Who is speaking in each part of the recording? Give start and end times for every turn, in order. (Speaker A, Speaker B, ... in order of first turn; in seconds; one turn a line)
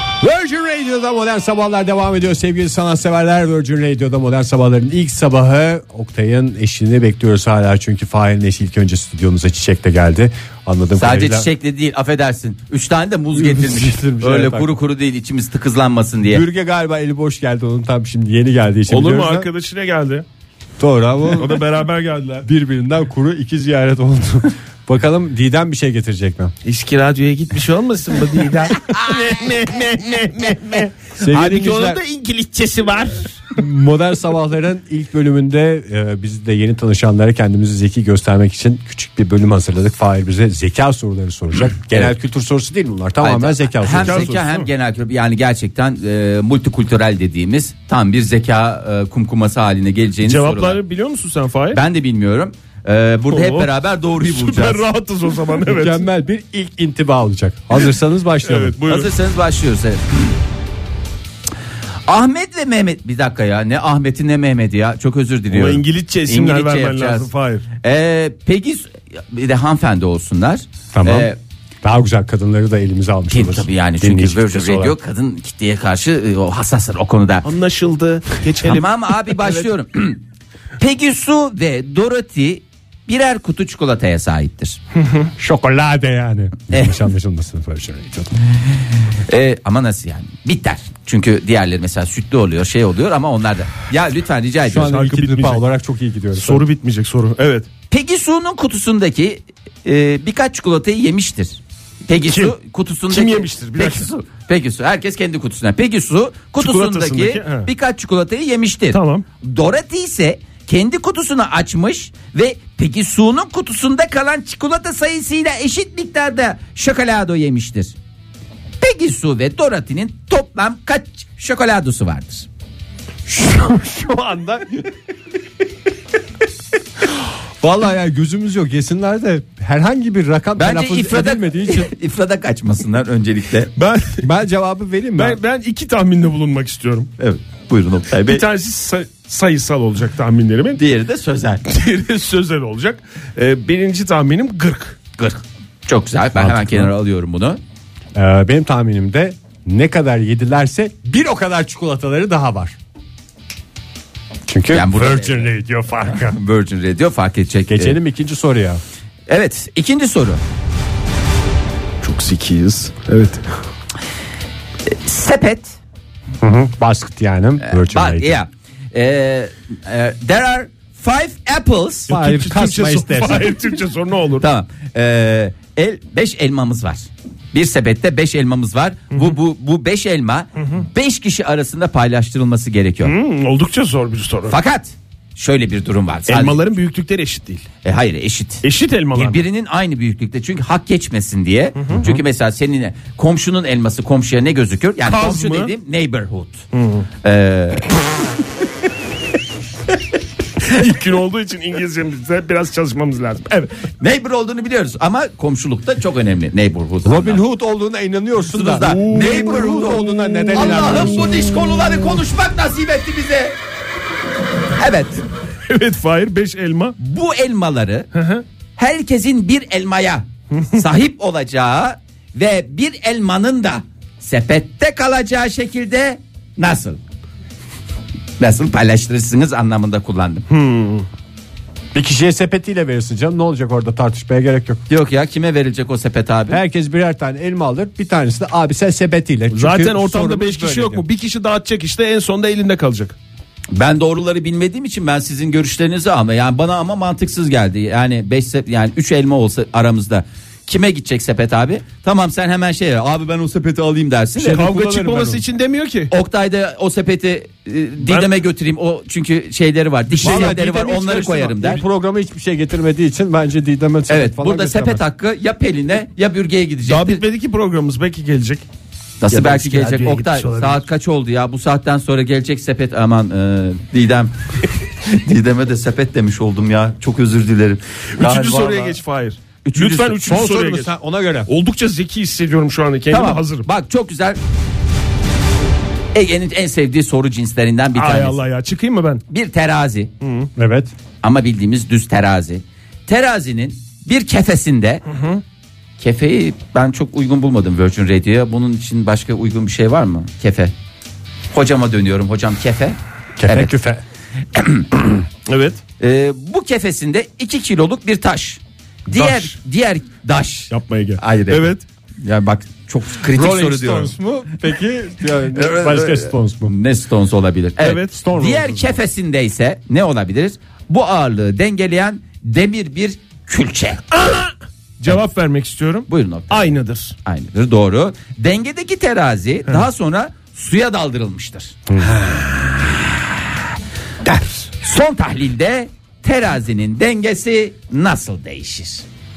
Speaker A: 0.2-11.5
Speaker B: 11.0-16.4
Speaker A: 13.3-14.7
Speaker A: 16.3-19.5
Speaker C: 18.9-20.2
Speaker A: 20.8-21.6
Speaker C: 21.4-22.5
Speaker A: 22.4-26.5
Speaker C: 26.6-33.6
Speaker A: 31.2-32.0
Speaker A: 33.5-44.4
Speaker B: 43.2-50.8
Speaker C: 44.0-44.7
Speaker C: 50.2-51.8
Speaker B: 51.7-54.9
Speaker C: 53.3-56.0
Speaker A: 55.7-58.8
Speaker C: 58.4-59.1
Speaker B: 58.9-60.3
Speaker B: 62.1-67.3
Speaker C: 65.5-67.7
Speaker B: 67.8-71.4
Speaker A: 70.9-71.3
Speaker A: 71.8-75.0
Speaker B: 73.3-77.5
Speaker C: 77.4-79.7
Speaker B: 78.6-80.2
Speaker B: 80.8-84.8
Speaker C: 85.0-85.3
Speaker A: 85.4-88.3
Speaker B: 89.1-94.9
Speaker A: 94.7-96.6
Speaker C: 94.8-95.6
Speaker C: 96.3-97.7
Speaker B: 97.9-118.0
Speaker C: 103.1-104.1
Speaker C: 106.6-107.7
Speaker C: 108.9-109.2
Speaker B: 118.8-122.5
Speaker A: 123.3-124.8
Speaker A: 127.6-131.9
Speaker B: 130.6-133.7
Speaker C: 133.8-134.3
Speaker A: 134.2-135.4
Speaker C: 135.2-137.1
Speaker B: 137.2-138.5
Speaker C: 138.1-140.8
Speaker B: 140.8-141.7
Speaker C: 141.7-145.0
Speaker B: 145.2-147.6
Speaker A: 146.3-146.9
Speaker A: 148.1-152.8
Speaker A: 154.5-156.4
Speaker B: 154.7-155.5
Speaker B: 156.1-158.0
Speaker A: 157.7-158.8
Speaker B: 159.3-160.4
Speaker C: 162.0-163.4
Speaker B: 164.9-165.8
Speaker A: 166.4-168.4
Speaker B: 167.6-172.1
Speaker A: 172.1-173.5
Speaker C: 172.1-174.5
Speaker B: 174.4-183.2
Speaker C: 183.0-184.6
Speaker B: 184.5-186.6
Speaker C: 186.3-187.7
Speaker B: 187.8-196.6
Speaker C: 188.6-189.4
Speaker C: 191.8-192.2
Speaker C: 195.1-195.7
Speaker C: 196.7-197.1
Speaker B: 197.2-197.9
Speaker C: 200.6-203.7
Speaker B: 204.0-207.4
Speaker A: 207.0-211.4
Speaker B: 208.5-213.6
Speaker C: 208.8-211.2
Speaker B: 214.8-215.2
Speaker C: 215.7-217.0
Speaker B: 217.0-218.1
Speaker C: 218.1-218.4
Speaker B: 218.8-227.0
Speaker C: 220.5-220.8
Speaker B: 228.4-230.4
Speaker C: 230.5-231.1
Speaker A: 231.9-234.8
Speaker B: 234.9-236.6
Speaker A: 236.5-241.0
Speaker C: 239.5-243.2
Speaker B: 243.7-254.7
Speaker A: 254.4-255.4
Speaker C: 254.5-256.1
Speaker B: 256.1-261.8
Speaker C: 258.1-258.3
Speaker C: 260.1-261.6
Speaker A: 260.2-260.7
Speaker A: 261.5-265.0
Speaker B: 264.1-267.2
Speaker C: 266.9-268.7
Speaker B: 269.2-279.0
Speaker A: 269.3-270.7
Speaker C: 269.4-270.8
Speaker C: 278.2-280.9
Speaker B: 279.6-280.2
Speaker A: 280.0-281.5
Speaker C: 281.5-283.7
Speaker B: 283.1-284.4
Speaker B: 286.1-288.4
Speaker C: 287.9-289.2
Speaker B: 289.3-290.1
Speaker C: 290.2-290.5
Speaker A: 290.6-290.9
Speaker B: 291.2-295.0
Speaker C: 295.1-295.4
Speaker B: 296.0-300.7
Speaker B: 301.5-303.7
Speaker A: 303.4-304.0
Speaker B: 304.5-305.2
Speaker C: 305.5-305.8
Speaker B: 306.0-314.1
Speaker C: 309.1-309.5
Speaker C: 310.7-311.8
Speaker A: 313.3-316.7
Speaker B: 315.5-324.1
Speaker C: 317.8-318.3
Speaker A: 318.1-319.0
Speaker C: 324.1-327.1
Speaker B: 326.1-326.7
Speaker B: 327.2-333.7
Speaker A: 331.9-332.2
Speaker B: 334.8-339.1